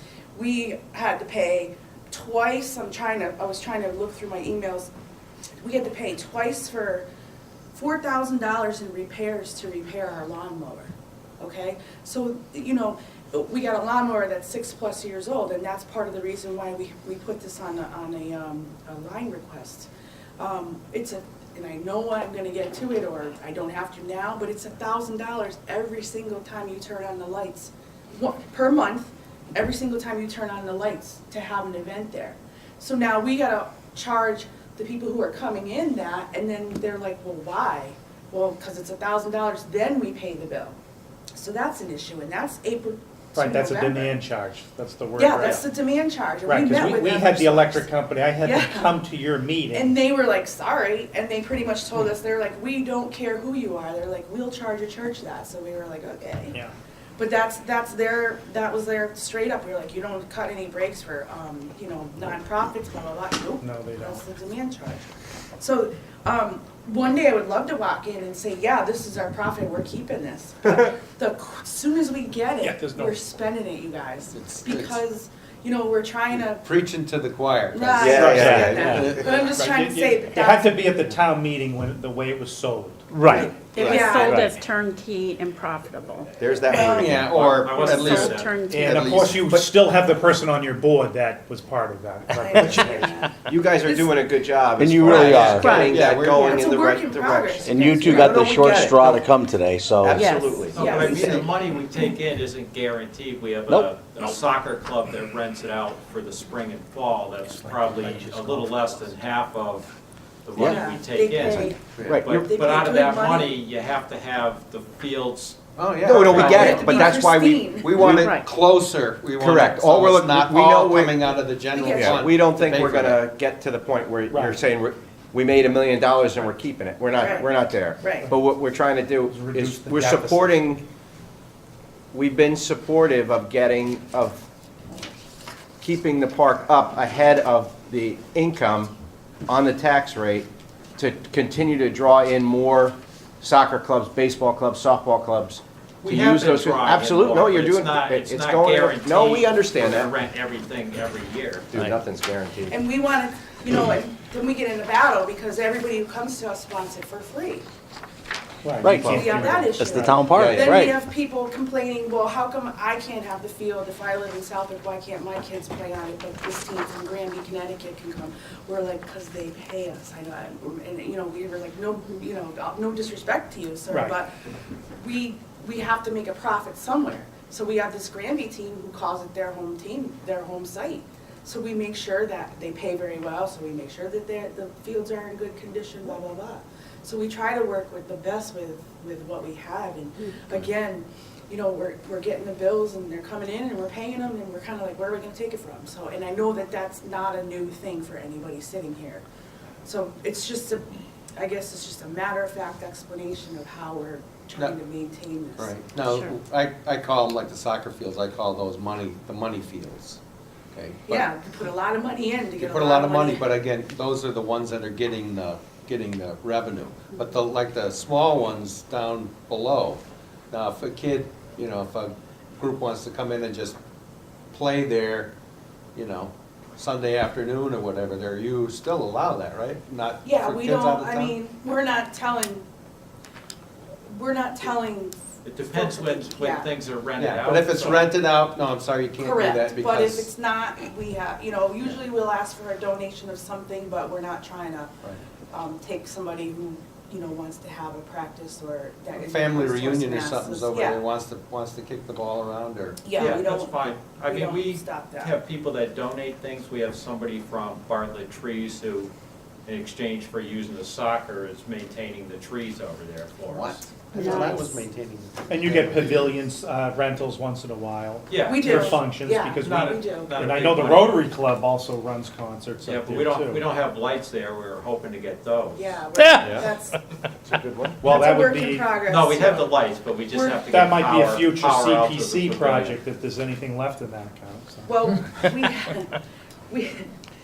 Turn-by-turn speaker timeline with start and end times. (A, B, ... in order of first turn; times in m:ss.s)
0:00.3-0:04.9 A
0:05.6-0:07.0 A
0:07.7-0:40.8 A
0:41.3-0:44.2 A
0:43.3-0:45.6 B
0:45.2-0:47.9 A
0:46.4-0:50.0 B
0:48.4-0:49.0 A
0:49.7-0:56.6 A
0:57.2-1:05.1 A
1:03.6-1:04.2 B
1:05.6-1:16.6 A
1:12.6-1:13.2 B
1:14.3-1:15.0 C
1:16.6-1:19.4 C
1:17.7-1:20.8 A
1:18.0-1:19.2 D
1:18.2-1:23.6 B
1:23.2-1:24.4 D
1:23.6-1:26.4 E
1:23.8-1:24.5 A
1:26.4-1:27.7 D
1:26.7-1:27.2 A
1:26.7-1:29.7 C
1:27.2-1:28.6 F
1:27.7-1:29.2 E
1:28.7-1:33.1 B
1:32.4-1:34.2 A
1:33.5-1:39.2 D
1:34.8-1:35.7 G
1:35.0-1:36.8 C
1:35.0-1:38.6 A
1:37.6-1:40.3 G
1:40.0-1:40.8 D
1:40.1-1:40.6 E
1:40.7-1:55.6 F
1:40.7-1:41.5 A
1:40.8-1:41.4 C
1:47.6-1:49.1 B
1:50.6-1:51.8 A
1:51.3-1:51.9 E
1:51.9-1:52.2 C
1:52.0-1:52.5 D
1:52.4-1:53.5 A
1:55.8-1:57.1 C
1:56.0-1:58.3 D
1:56.3-1:57.9 A
1:56.3-1:56.9 F
1:57.8-2:03.2 C
1:58.0-1:58.5 E
1:59.4-2:01.3 D
2:01.7-2:02.2 A
2:01.9-2:10.8 D
2:04.3-2:04.6 B
2:07.1-2:08.3 A
2:09.3-2:10.6 B
2:12.1-2:14.4 D
2:15.8-2:18.9 D
2:19.5-2:30.1 D
2:26.0-2:32.0 F
2:31.7-2:32.8 D
2:32.7-2:37.7 A
2:38.6-2:40.0 B
2:38.8-2:41.0 G
2:39.0-2:54.3 A
2:40.3-2:40.9 C
2:53.9-2:54.2 B
2:55.0-3:19.2 A
3:19.8-3:25.7 A
3:25.6-3:30.2 C
3:26.0-3:26.4 E
3:30.7-3:31.3 C
3:31.1-3:33.5 A
3:32.6-3:43.8 C
3:44.5-3:45.3 C
3:45.9-3:51.4 C
3:50.2-3:52.6 A
3:54.1-3:56.7 A
3:55.4-3:58.2 F
3:57.2-4:00.3 C
3:59.2-4:04.9 A
4:05.5-4:11.0 A
4:09.1-4:13.0 C
4:13.0-4:15.3 A
4:13.1-4:19.1 F
4:19.6-4:23.8 F
4:23.4-4:26.4 C
4:24.1-4:24.8 E
4:25.5-4:33.6 B
4:28.3-4:31.2 F
4:28.4-4:30.4 A
4:32.8-4:36.7 F
4:35.8-4:37.0 A
4:36.2-4:36.6 B
4:37.4-4:38.0 D
4:38.0-4:38.9 B
4:38.0-4:39.8 A
4:39.0-4:43.0 F
4:40.3-4:40.6 A
4:40.7-4:45.7 B
4:44.8-4:46.2 A
4:46.7-4:47.1 A